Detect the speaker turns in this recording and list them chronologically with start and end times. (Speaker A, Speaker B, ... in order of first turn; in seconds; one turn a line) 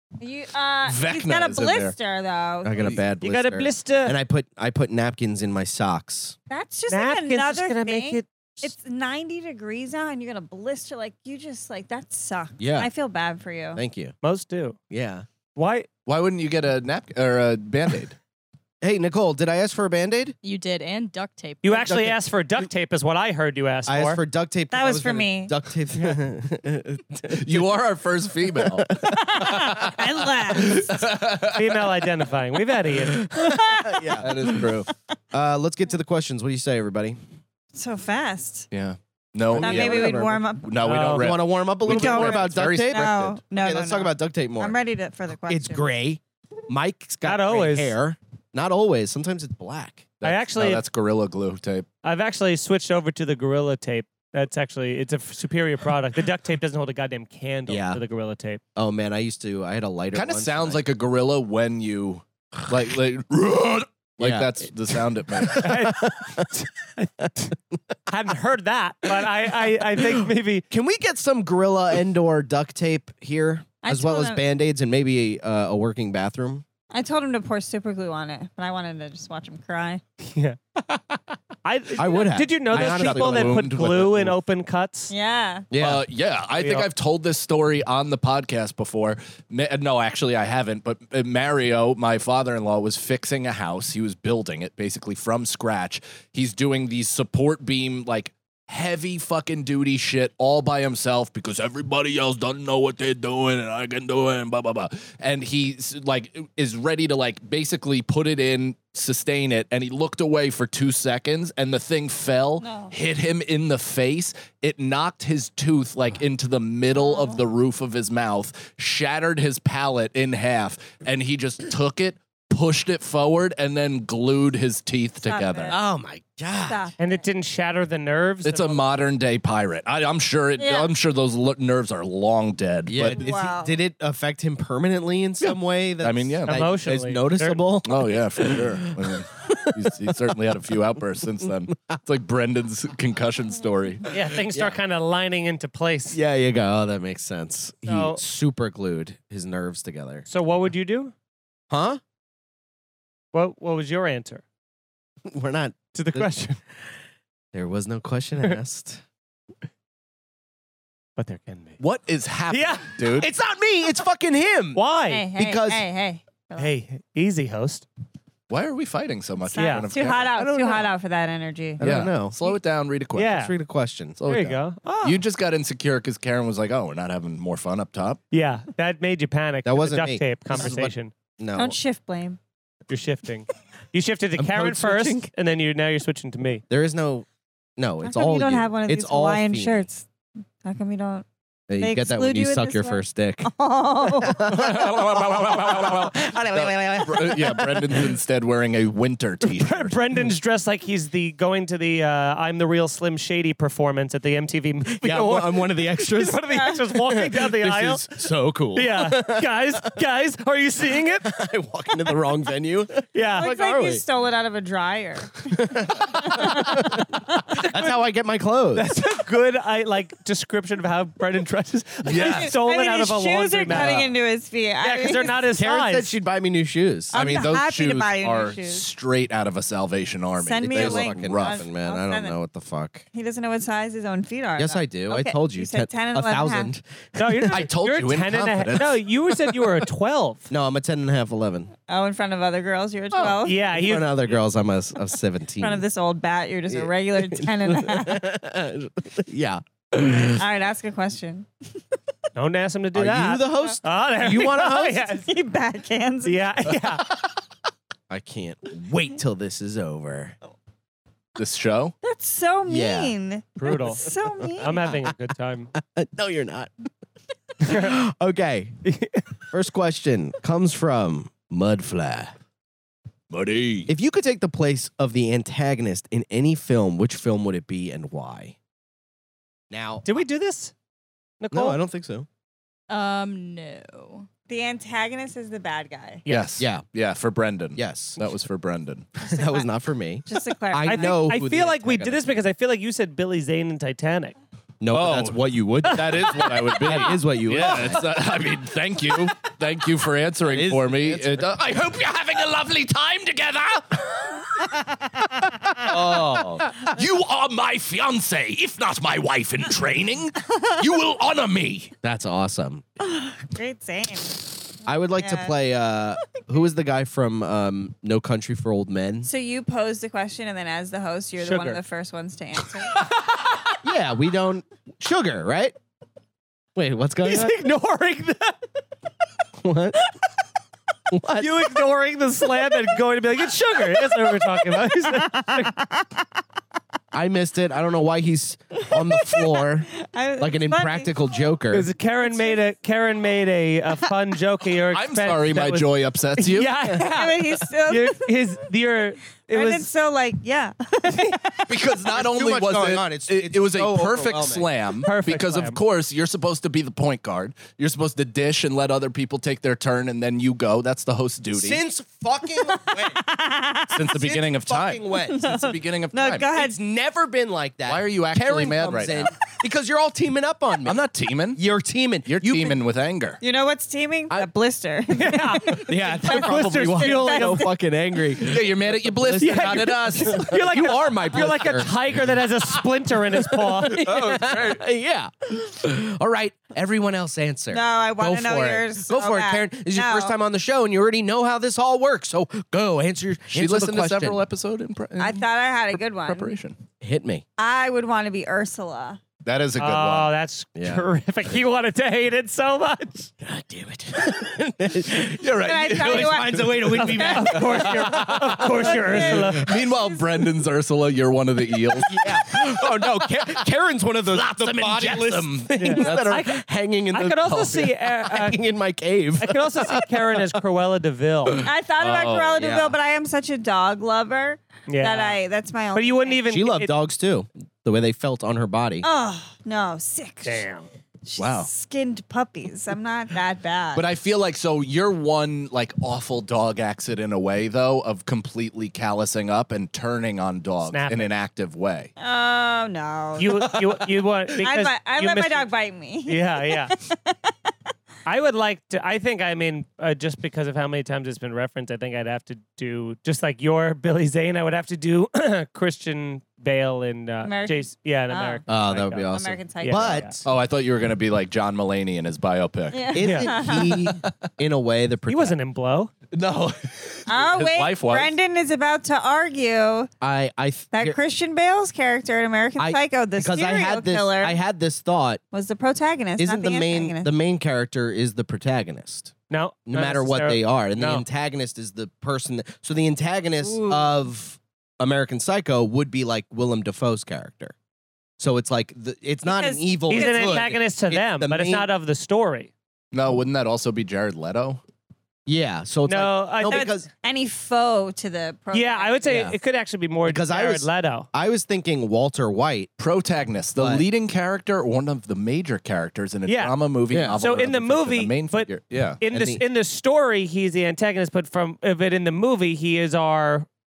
Speaker A: 0.2-2.9
Speaker B: 0.8-1.9
Speaker C: 2.6-6.4
Speaker D: 3.2-4.1
Speaker A: 6.5-13.8
Speaker D: 6.9-8.7
Speaker C: 12.6-12.9
Speaker C: 13.7-14.1
Speaker D: 14.2-14.8
Speaker C: 14.9-15.2
Speaker D: 15.5-15.9
Speaker B: 16.1-18.2
Speaker C: 18.8-20.4
Speaker E: 20.4-21.8
Speaker D: 21.6-24.2
Speaker C: 21.7-22.1
Speaker C: 23.9-27.7
Speaker A: 24.7-25.5
Speaker B: 27.3-31.7
Speaker C: 28.6-29.4
Speaker A: 29.1-31.1
Speaker D: 31.5-33.3
Speaker C: 33.0-37.2
Speaker A: 33.3-34.2
Speaker B: 34.2-34.9
Speaker A: 37.7-38.7
Speaker B: 38.7-43.2
Speaker C: 39.5-40.4
Speaker A: 39.6-40.7
Speaker D: 40.8-41.3
Speaker C: 41.1-44.7
Speaker A: 41.8-45.9
Speaker C: 45.5-50.1
Speaker D: 47.2-47.9
Speaker B: 50.2-51.9
Speaker D: 50.2-50.8
Speaker D: 52.0-58.6
Speaker C: 57.7-58.0
Speaker C: 58.8-60.8
Speaker B: 60.1-65.8
Speaker C: 64.2-66.5
Speaker D: 65.5-67.5
Speaker D: 68.1-70.6
Speaker C: 69.8-76.6
Speaker A: 73.8-74.4
Speaker A: 76.9-80.0
Speaker D: 80.2-85.1
Speaker C: 81.9-84.1
Speaker B: 82.7-84.3
Speaker A: 85.1-85.7
Speaker C: 85.7-86.0
Speaker B: 85.8-125.8
Speaker D: 86.6-86.9
Speaker A: 112.6-112.9
Speaker A: 116.9-117.4
Speaker A: 125.2-125.8
Speaker C: 125.7-126.9
Speaker A: 126.7-127.1
Speaker D: 127.0-128.8
Speaker B: 128.4-133.2
Speaker A: 130.6-130.9
Speaker C: 132.9-140.0
Speaker A: 133.1-133.8
Speaker B: 135.4-136.6
Speaker D: 136.5-137.6
Speaker B: 137.8-144.1
Speaker D: 144.1-146.2
Speaker C: 144.5-144.8
Speaker C: 146.1-150.2
Speaker D: 147.8-148.2
Speaker D: 150.3-151.1
Speaker C: 151.7-152.0
Speaker D: 153.3-154.4
Speaker C: 155.3-156.3
Speaker D: 155.9-156.6
Speaker C: 157.5-159.0
Speaker D: 161.2-161.8
Speaker B: 161.8-163.3
Speaker D: 162.5-162.9
Speaker C: 163.0-164.8
Speaker D: 164.7-165.3
Speaker A: 165.1-166.7
Speaker C: 165.3-165.8
Speaker D: 166.6-167.8
Speaker B: 168.5-170.3
Speaker A: 169.4-171.8
Speaker D: 169.6-169.9
Speaker C: 170.3-170.9
Speaker C: 171.8-172.4
Speaker B: 171.8-173.3
Speaker D: 173.2-173.5
Speaker C: 173.2-174.2
Speaker B: 174.2-178.2
Speaker D: 174.3-174.9
Speaker D: 178.3-181.1
Speaker C: 179.6-181.8
Speaker A: 181.5-182.4
Speaker D: 182.9-186.6
Speaker C: 184.3-185.3
Speaker C: 186.7-189.8
Speaker A: 188.0-190.1
Speaker A: 190.6-191.3
Speaker C: 191.7-193.5
Speaker A: 191.8-194.6
Speaker C: 194.1-197.9
Speaker B: 194.4-200.0
Speaker D: 199.4-211.3
Speaker C: 204.8-210.0
Speaker A: 206.5-206.8
Speaker C: 211.2-214.0
Speaker D: 213.1-213.6
Speaker A: 213.3-217.6
Speaker C: 215.5-218.9
Speaker D: 217.5-217.9
Speaker D: 218.7-224.0
Speaker B: 222.1-222.5
Speaker A: 222.1-225.4
Speaker C: 223.7-224.1
Speaker D: 224.8-226.2
Speaker C: 225.5-227.4
Speaker A: 227.1-228.9
Speaker B: 227.1-231.6
Speaker A: 230.4-232.4
Speaker C: 230.6-233.1
Speaker A: 233.1-236.7
Speaker C: 234.6-237.7
Speaker D: 237.2-240.5
Speaker B: 237.5-239.0
Speaker C: 240.5-241.7
Speaker A: 241.9-243.6
Speaker C: 243.2-245.8
Speaker D: 243.4-244.2
Speaker A: 245.6-248.2
Speaker C: 246.7-250.4
Speaker A: 250.2-251.5
Speaker D: 252.3-255.3
Speaker C: 252.9-255.1
Speaker A: 255.2-256.4
Speaker D: 256.2-257.1
Speaker C: 258.1-260.4
Speaker B: 261.4-261.9
Speaker A: 262.0-264.9
Speaker C: 262.7-263.1
Speaker D: 263.6-265.7
Speaker C: 265.7-266.7
Speaker C: 267.6-268.8
Speaker D: 267.6-268.0
Speaker D: 268.9-269.2
Speaker C: 269.5-272.3
Speaker B: 273.3-273.9
Speaker C: 273.9-278.6
Speaker C: 279.7-280.1
Speaker D: 280.0-280.7
Speaker D: 281.4-281.8
Speaker C: 281.5-282.3
Speaker E: 282.9-284.2
Speaker A: 284.5-286.2
Speaker D: 286.2-286.5
Speaker B: 286.3-289.2
Speaker C: 286.6-286.8
Speaker C: 287.7-288.2
Speaker A: 289.2-289.6
Speaker C: 289.2-292.2
Speaker A: 290.3-291.3
Speaker D: 290.8-294.4
Speaker C: 294.8-298.1
Speaker B: 294.9-304.5
Speaker C: 300.4-301.6
Speaker B: 305.4-311.9
Speaker C: 305.8-306.7
Speaker C: 312.0-312.8
Speaker A: 313.0-315.5
Speaker C: 314.9-319.3
Speaker A: 319.2-323.1
Speaker D: 321.4-321.8
Speaker C: 323.8-325.8
Speaker C: 326.7-327.6
Speaker D: 327.2-328.6
Speaker C: 329.6-330.0
Speaker C: 331.1-331.8
Speaker D: 331.4-335.7
Speaker A: 335.0-336.1
Speaker C: 337.1-341.9
Speaker A: 339.2-341.2
Speaker D: 341.7-349.9
Speaker A: 342.2-342.6
Speaker B: 344.9-346.7
Speaker A: 346.9-348.3
Speaker A: 349.5-351.7
Speaker D: 351.1-351.4
Speaker B: 351.7-361.8
Speaker C: 352.1-354.7
Speaker D: 355.0-355.8
Speaker C: 361.5-363.2
Speaker A: 362.7-364.3
Speaker B: 363.9-366.5
Speaker C: 364.1-365.4
Speaker A: 365.3-366.8
Speaker C: 366.5-372.8
Speaker B: 367.9-369.3
Speaker B: 370.8-371.6
Speaker B: 372.2-373.4
Speaker A: 373.4-377.7
Speaker D: 375.1-377.7
Speaker C: 375.8-382.2
Speaker B: 378.4-380.5
Speaker D: 379.4-384.1
Speaker C: 383.4-394.4
Speaker B: 383.9-384.8
Speaker A: 387.7-390.3
Speaker B: 393.5-396.8
Speaker A: 395.2-396.5
Speaker C: 397.0-397.4
Speaker A: 397.6-399.2
Speaker B: 399.4-400.3
Speaker D: 399.8-403.3
Speaker C: 400.7-401.1
Speaker C: 403.4-409.5
Speaker B: 405.2-413.4
Speaker A: 405.5-408.0
Speaker D: 406.9-409.7
Speaker A: 408.7-410.4
Speaker C: 411.9-420.6
Speaker B: 414.3-416.4
Speaker D: 415.8-418.6
Speaker D: 419.4-421.6
Speaker A: 421.6-426.4
Speaker B: 422.0-422.8
Speaker C: 422.6-422.9
Speaker D: 424.9-425.4
Speaker D: 425.9-426.9
Speaker C: 426.4-429.1
Speaker A: 429.0-430.6
Speaker D: 430.4-430.9
Speaker A: 431.2-434.0
Speaker C: 431.4-431.7
Speaker B: 433.9-442.1
Speaker D: 440.9-441.3
Speaker A: 442.2-443.8
Speaker D: 443.4-445.7
Speaker A: 444.5-447.7
Speaker D: 446.2-446.9
Speaker D: 448.2-460.4
Speaker A: 457.4-458.6
Speaker C: 458.7-460.5
Speaker A: 459.3-460.2
Speaker B: 460.4-463.2
Speaker A: 462.9-464.1
Speaker C: 463.1-465.6
Speaker D: 463.2-463.5
Speaker B: 463.9-464.3
Speaker D: 465.3-466.1
Speaker B: 466.3-468.3
Speaker A: 467.3-470.1
Speaker C: 470.2-471.2
Speaker A: 470.9-474.6
Speaker C: 472.8-475.4
Speaker A: 475.5-477.3
Speaker C: 476.4-479.3
Speaker D: 479.5-481.2
Speaker C: 479.9-487.7
Speaker A: 483.6-484.1
Speaker C: 488.4-491.9
Speaker A: 489.4-490.6
Speaker D: 490.1-492.7
Speaker B: 493.1-494.8
Speaker C: 495.4-497.1
Speaker D: 496.1-496.9
Speaker A: 496.7-499.2
Speaker D: 498.7-501.3
Speaker C: 499.2-499.6
Speaker C: 500.2-502.9
Speaker B: 503.0-509.2
Speaker C: 503.8-504.0
Speaker D: 506.5-506.7
Speaker C: 507.1-507.4
Speaker D: 507.4-513.7
Speaker C: 509.3-509.6